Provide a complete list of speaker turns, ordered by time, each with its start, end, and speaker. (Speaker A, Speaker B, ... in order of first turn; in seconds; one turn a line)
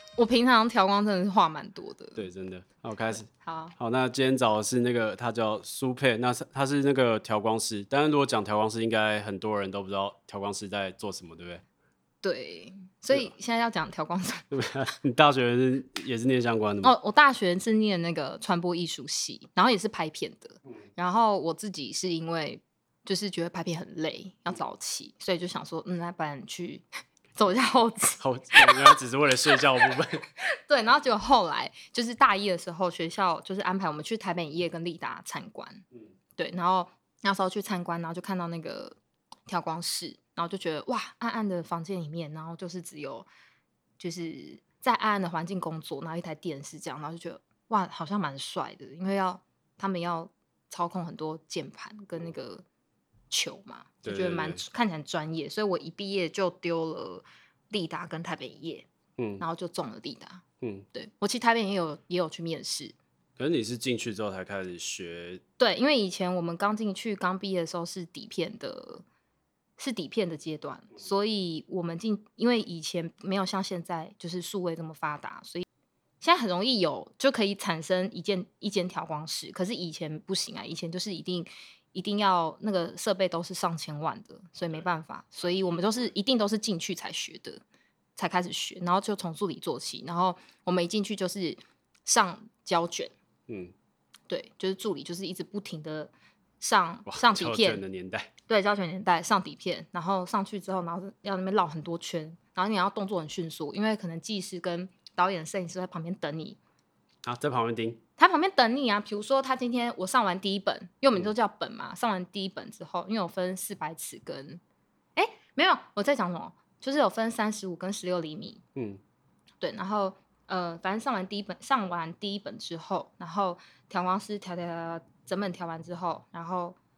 Speaker A: 0.2-2.2
Speaker B: 2.2-11.6
Speaker A: 3.3-3.8
Speaker A: 12.2-14.4
Speaker B: 14.5-16.9
Speaker A: 16.8-26.8
Speaker A: 27.4-28.9
Speaker B: 28.2-30.2
Speaker A: 30.4-35.9
Speaker A: 36.4-43.3
Speaker A: 44.0-52.6
Speaker A: 53.3-58.9
Speaker B: 54.0-54.6
Speaker B: 59.2-59.4
Speaker A: 59.4-63.0
Speaker B: 60.6-60.9
Speaker B: 63.4-65.4
Speaker A: 65.6-69.0
Speaker A: 69.8-75.6
Speaker A: 76.2-87.6
Speaker B: 84.6-84.9
Speaker B: 85.4-86.1
Speaker A: 88.2-93.1
Speaker B: 93.5-93.7
Speaker A: 94.3-97.8
Speaker B: 97.1-98.3
Speaker A: 98.5-106.6
Speaker B: 107.2-108.0
Speaker A: 108.2-114.6
Speaker A: 115.2-118.6
Speaker B: 118.8-119.0
Speaker A: 119.6-126.8